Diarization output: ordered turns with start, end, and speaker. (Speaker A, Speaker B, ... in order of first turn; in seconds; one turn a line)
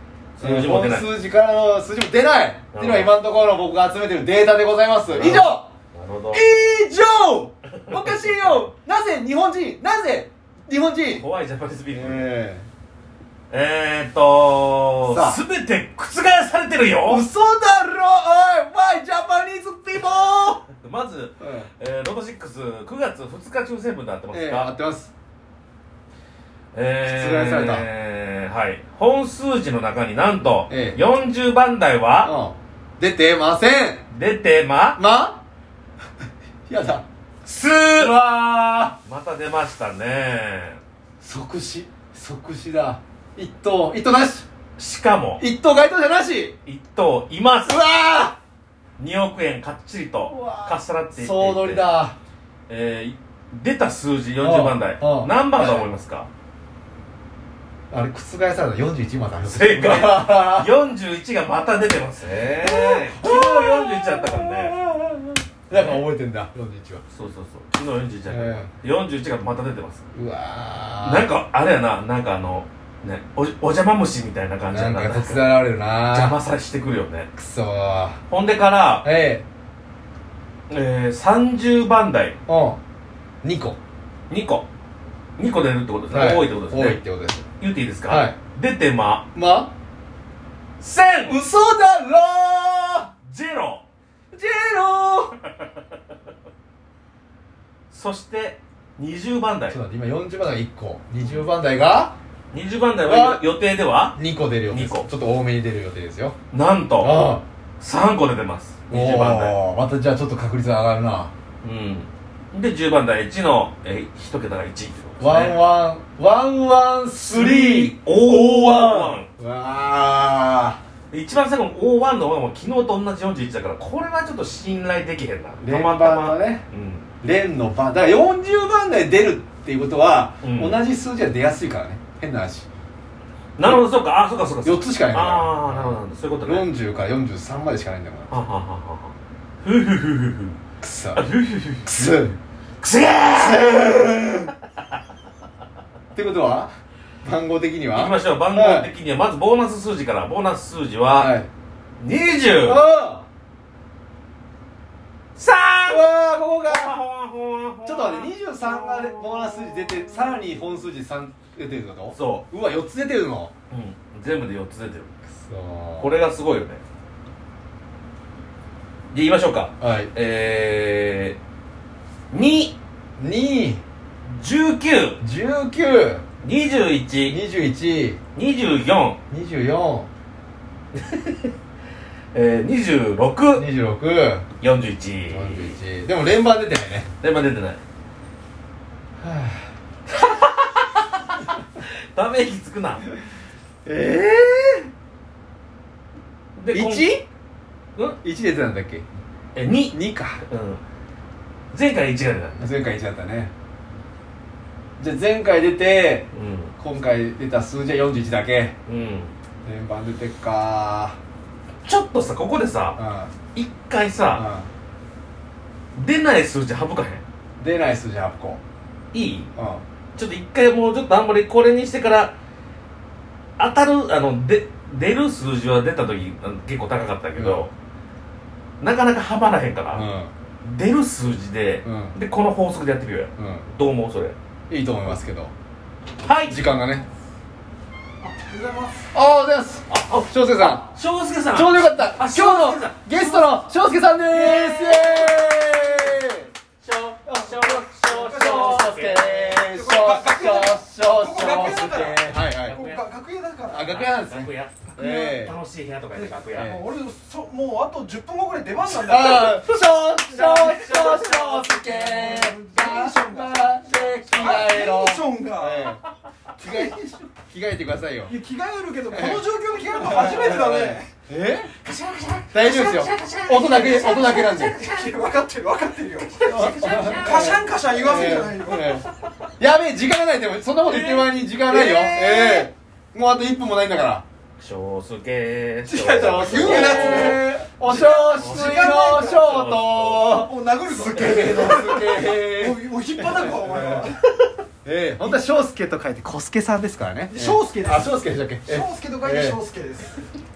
Speaker A: 0.4-1.1
Speaker B: 0.4-5.7
Speaker A: 2.7-3.1
Speaker A: 5.1-6.4
Speaker B: 6.3-11.2
Speaker A: 7.8-8.6
Speaker A: 11.1-12.3
Speaker B: 11.9-12.7
Speaker A: 13.5-17.2
Speaker B: 15.0-15.4
Speaker B: 17.1-20.6
Speaker A: 20.8-24.7
Speaker B: 21.4-21.7
Speaker B: 24.3-25.1
Speaker A: 26.7-32.3
Speaker B: 27.0-27.9
Speaker B: 30.7-31.0
Speaker B: 32.2-34.0
Speaker A: 34.1-35.0
Speaker B: 35.0-35.4
Speaker B: 36.7-37.0
Speaker A: 37.4-38.2
Speaker B: 37.6-39.0
Speaker A: 39.0-40.8
Speaker B: 41.2-44.5
Speaker A: 44.8-45.4
Speaker B: 45.4-46.5
Speaker A: 46.6-47.8
Speaker B: 47.6-48.4
Speaker A: 49.0-51.8
Speaker B: 50.2-52.1
Speaker A: 52.7-56.3
Speaker B: 54.4-55.9
Speaker B: 57.9-60.7
Speaker A: 59.5-64.8
Speaker B: 62.6-67.0
Speaker A: 65.7-66.0
Speaker A: 67.1-70.0
Speaker B: 68.3-68.7
Speaker B: 70.1-71.3
Speaker A: 71.0-75.5
Speaker B: 74.7-76.4
Speaker A: 76.1-77.3
Speaker B: 77.3-78.2
Speaker A: 78.3-79.1
Speaker B: 79.0-79.4
Speaker A: 80.7-82.4
Speaker B: 82.5-82.8
Speaker B: 83.4-83.8
Speaker A: 84.3-84.7
Speaker A: 85.4-87.0
Speaker B: 86.1-87.4
Speaker A: 87.6-89.2
Speaker B: 88.1-88.4
Speaker B: 89.3-89.7
Speaker A: 90.8-91.4
Speaker B: 91.2-93.1
Speaker A: 93.2-93.8
Speaker B: 94.3-95.3
Speaker A: 97.9-99.8
Speaker B: 99.7-102.2
Speaker A: 102.5-104.2
Speaker B: 103.0-103.4
Speaker B: 104.1-106.3
Speaker A: 104.7-105.1
Speaker A: 106.5-107.3
Speaker B: 107.0-107.4
Speaker A: 107.8-109.5
Speaker B: 108.9-111.3
Speaker A: 111.6-115.6
Speaker B: 115.2-120.8
Speaker A: 117.3-119.3
Speaker A: 121.1-127.1
Speaker B: 125.6-126.7
Speaker B: 127.2-132.7
Speaker A: 130.4-130.8
Speaker A: 133.6-136.7
Speaker B: 134.6-138.4
Speaker A: 138.3-140.6
Speaker B: 140.8-141.2
Speaker A: 141.1-142.2
Speaker B: 141.8-142.4
Speaker A: 142.8-144.0
Speaker B: 143.2-144.5
Speaker B: 146.1-146.7
Speaker B: 147.2-148.9
Speaker A: 147.9-151.3
Speaker B: 151.2-151.5
Speaker A: 152.0-152.8
Speaker B: 152.6-153.2
Speaker A: 155.3-156.1
Speaker B: 155.9-157.0
Speaker A: 156.7-158.3
Speaker B: 157.8-163.5
Speaker A: 162.1-162.4
Speaker A: 163.7-165.1
Speaker B: 165.3-166.1
Speaker A: 166.0-166.8
Speaker A: 169.1-171.4
Speaker B: 169.8-170.1
Speaker A: 172.3-172.8
Speaker B: 173.2-173.8
Speaker A: 174.3-175.2
Speaker B: 175.2-176.2
Speaker A: 176.4-177.4
Speaker B: 177.3-178.2
Speaker A: 178.3-179.2
Speaker B: 179.3-180.1
Speaker A: 180.9-181.5
Speaker A: 182.3-183.7
Speaker B: 183.5-184.5
Speaker A: 184.6-185.8
Speaker B: 185.3-187.1
Speaker A: 187.2-187.8
Speaker B: 189.2-189.7
Speaker A: 190.1-193.0
Speaker B: 193.8-194.9
Speaker A: 196.6-197.2
Speaker B: 196.7-197.2
Speaker B: 198.2-199.0
Speaker A: 199.5-200.8
Speaker B: 199.9-200.4
Speaker A: 201.7-202.7
Speaker B: 202.6-203.5
Speaker B: 205.0-206.3
Speaker A: 206.3-206.7
Speaker B: 206.8-208.7
Speaker A: 208.8-209.3
Speaker B: 209.6-211.2
Speaker A: 211.8-213.0
Speaker B: 213.0-213.3
Speaker A: 213.5-214.4
Speaker B: 214.3-214.7
Speaker A: 215.9-217.2
Speaker B: 217.6-218.6
Speaker A: 219.1-219.5
Speaker B: 219.6-219.8
Speaker A: 220.2-222.3
Speaker A: 223.6-227.7
Speaker B: 227.3-227.7
Speaker A: 228.8-230.1
Speaker B: 229.9-230.3
Speaker A: 230.6-234.3
Speaker B: 231.8-232.2
Speaker B: 233.4-233.7
Speaker B: 234.7-235.5
Speaker A: 236.2-236.6
Speaker B: 236.4-237.1
Speaker C: 238.2-239.1
Speaker B: 239.1-240.9
Speaker A: 239.9-243.6
Speaker B: 241.5-246.5
Speaker A: 244.3-245.9
Speaker A: 246.8-249.6
Speaker B: 247.2-252.8
Speaker C: 248.0-254.0
Speaker A: 251.8-253.1
Speaker B: 253.7-255.6
Speaker A: 253.8-256.7
Speaker C: 254.9-255.4
Speaker C: 256.1-259.6
Speaker B: 256.5-256.9
Speaker B: 258.9-266.0
Speaker A: 259.1-259.8
Speaker C: 260.2-266.0
Speaker A: 260.3-261.7
Speaker B: 266.6-268.3
Speaker C: 266.6-267.1
Speaker C: 268.3-271.1
Speaker B: 269.1-271.7
Speaker A: 271.7-275.2
Speaker B: 272.5-274.9
Speaker C: 273.7-279.0
Speaker A: 276.2-277.6
Speaker B: 276.4-279.0
Speaker B: 279.6-284.2
Speaker A: 280.8-281.3
Speaker C: 281.0-282.7
Speaker A: 284.6-290.4
Speaker C: 285.8-289.7
Speaker B: 286.1-294.1
Speaker C: 290.2-294.2
Speaker B: 294.8-299.6
Speaker C: 297.3-300.2